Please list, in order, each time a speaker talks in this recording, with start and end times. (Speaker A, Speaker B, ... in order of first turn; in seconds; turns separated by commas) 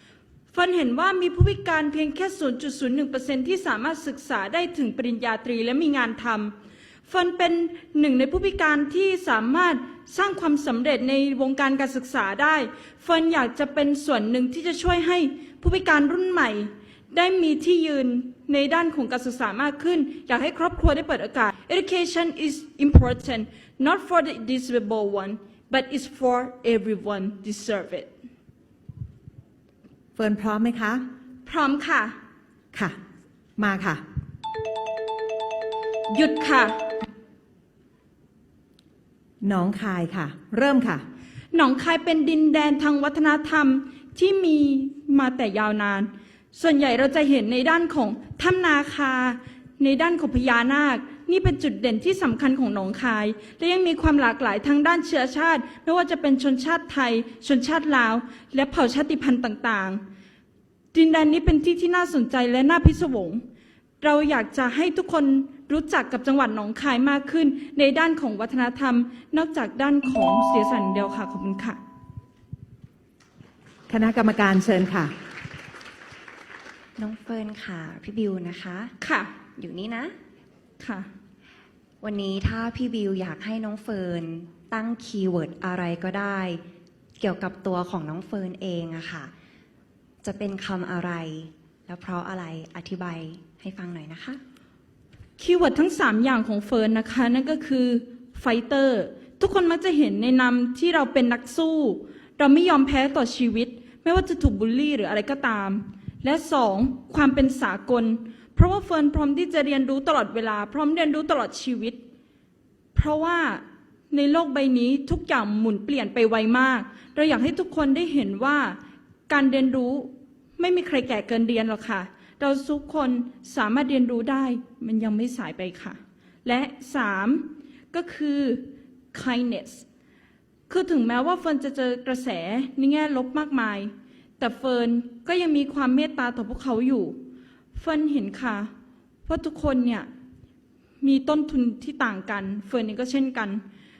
Speaker A: 0.5-6.5, Speaker A: 7.0-28.1, Speaker B: 30.1-31.0, Speaker A: 31.4-32.1, Speaker B: 32.7-33.0, Speaker B: 33.6-34.0, Speaker A: 36.1-37.0, Speaker B: 39.4-41.0, Speaker A: 41.5-60.0, Speaker A: 60.9-63.4, Speaker A: 64.0-71.8, Speaker B: 73.9-75.1, Speaker C: 77.0-78.9, Speaker A: 79.0-79.3, Speaker C: 79.6-80.1, Speaker A: 80.8-81.1, Speaker C: 82.0-86.6, Speaker C: 87.2-89.3, Speaker C: 90.2-94.4, Speaker A: 95.4-112.0, Speaker A: 112.9-118.8, Speaker A: 119.3-129.8, Speaker A: 130.7-137.2, Speaker A: 137.7-138.7, Speaker A: 139.2-140.1, Speaker A: 141.0-143.6